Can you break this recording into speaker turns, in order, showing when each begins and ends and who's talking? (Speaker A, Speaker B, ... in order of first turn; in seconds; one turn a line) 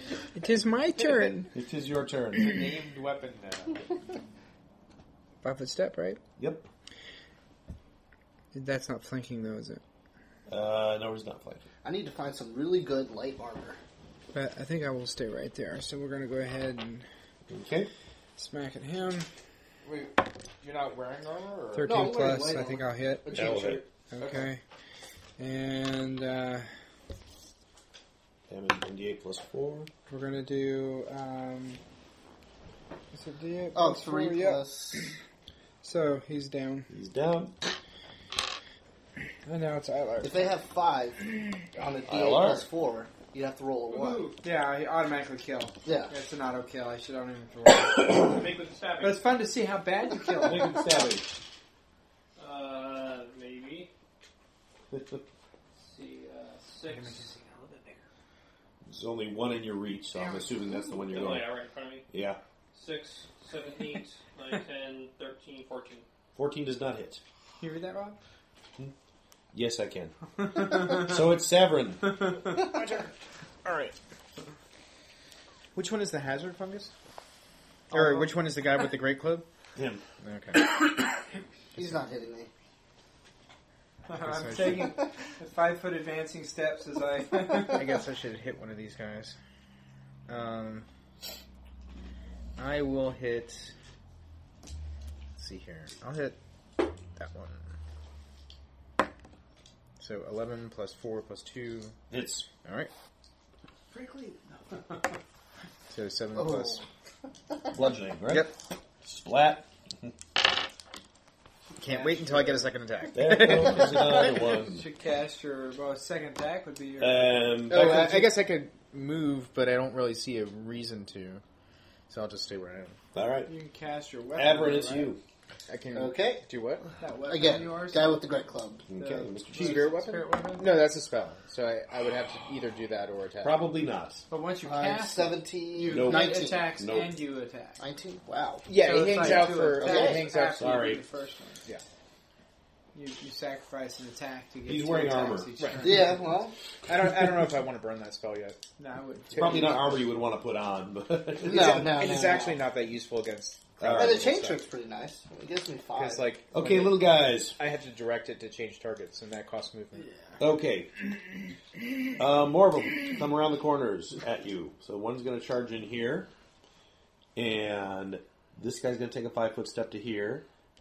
Speaker A: 0.3-1.5
Speaker B: 1.5-2.6
Speaker C: 2.3-3.9
Speaker A: 5.4-6.2
Speaker B: 6.4-6.7
Speaker A: 8.5-9.8
Speaker B: 10.5-11.7
Speaker D: 11.8-13.8
Speaker A: 14.3-17.1
Speaker B: 17.5-17.9
Speaker A: 18.4-19.3
Speaker C: 19.8-22.1
Speaker A: 21.7-24.6
Speaker D: 21.8-23.8
Speaker B: 23.3-23.8
Speaker C: 24.2-24.5
Speaker A: 25.4-26.7
Speaker B: 28.5-29.9
Speaker A: 30.1-31.8
Speaker A: 33.1-34.6
Speaker D: 33.7-35.1
Speaker A: 35.8-36.9
Speaker B: 36.9-37.5
Speaker A: 39.5-40.5
Speaker D: 40.2-44.3
Speaker B: 42.1-42.6
Speaker E: 43.9-44.4
Speaker A: 44.4-48.4
Speaker D: 45.9-46.1
Speaker E: 48.1-49.2
Speaker A: 49.0-50.9
Speaker B: 50.4-51.3
Speaker E: 52.4-53.9
Speaker B: 54.9-55.2
Speaker E: 55.8-58.0
Speaker A: 57.0-57.2
Speaker B: 58.9-61.6
Speaker E: 60.9-62.1
Speaker B: 62.1-62.4
Speaker E: 62.7-66.0
Speaker B: 66.3-67.2
Speaker A: 67.6-68.2
Speaker B: 69.5-72.3
Speaker A: 70.6-71.1
Speaker C: 72.5-73.1
Speaker C: 73.7-74.0
Speaker C: 75.8-76.9
Speaker C: 77.9-79.5
Speaker A: 77.9-78.3
Speaker B: 79.8-80.0
Speaker C: 80.2-80.8
Speaker D: 81.8-82.5
Speaker A: 84.1-88.0
Speaker C: 84.2-85.0
Speaker C: 87.6-89.4
Speaker C: 90.3-90.9
Speaker C: 92.6-93.7
Speaker C: 95.4-97.6
Speaker C: 100.0-102.0
Speaker B: 102.1-102.5
Speaker C: 102.6-102.9
Speaker C: 103.9-104.3
Speaker A: 103.9-104.3
Speaker C: 105.9-106.8
Speaker D: 106.3-106.8
Speaker B: 107.7-108.5
Speaker C: 108.3-108.5
Speaker B: 109.0-110.1
Speaker A: 111.8-112.7
Speaker C: 111.8-114.5
Speaker B: 113.1-114.9
Speaker A: 114.3-117.5
Speaker B: 117.0-118.4
Speaker C: 117.7-121.4
Speaker C: 122.1-123.0
Speaker B: 123.1-123.5
Speaker A: 123.5-125.1
Speaker B: 124.3-125.2
Speaker C: 125.7-126.9
Speaker D: 125.9-126.5
Speaker A: 127.0-128.3
Speaker D: 127.2-128.8
Speaker B: 128.9-129.9
Speaker A: 128.9-130.9
Speaker C: 129.6-133.6
Speaker B: 133.4-134.2
Speaker A: 134.3-137.8
Speaker D: 134.6-136.7
Speaker B: 135.9-137.2
Speaker D: 137.8-138.7
Speaker C: 138.7-140.7
Speaker A: 138.7-141.6
Speaker B: 139.2-139.5
Speaker D: 139.7-140.3
Speaker B: 140.5-141.0
Speaker A: 142.9-146.2
Speaker B: 144.7-145.5
Speaker C: 145.6-146.1
Speaker D: 145.8-146.5
Speaker C: 146.9-148.6
Speaker A: 148.8-149.8
Speaker C: 149.3-149.9
Speaker B: 149.4-152.0
Speaker D: 151.4-152.6
Speaker C: 151.5-154.6
Speaker B: 153.8-154.3
Speaker D: 153.9-156.3
Speaker C: 155.9-160.2
Speaker B: 156.5-157.6
Speaker B: 160.4-161.0
Speaker B: 162.2-166.3
Speaker B: 167.3-170.5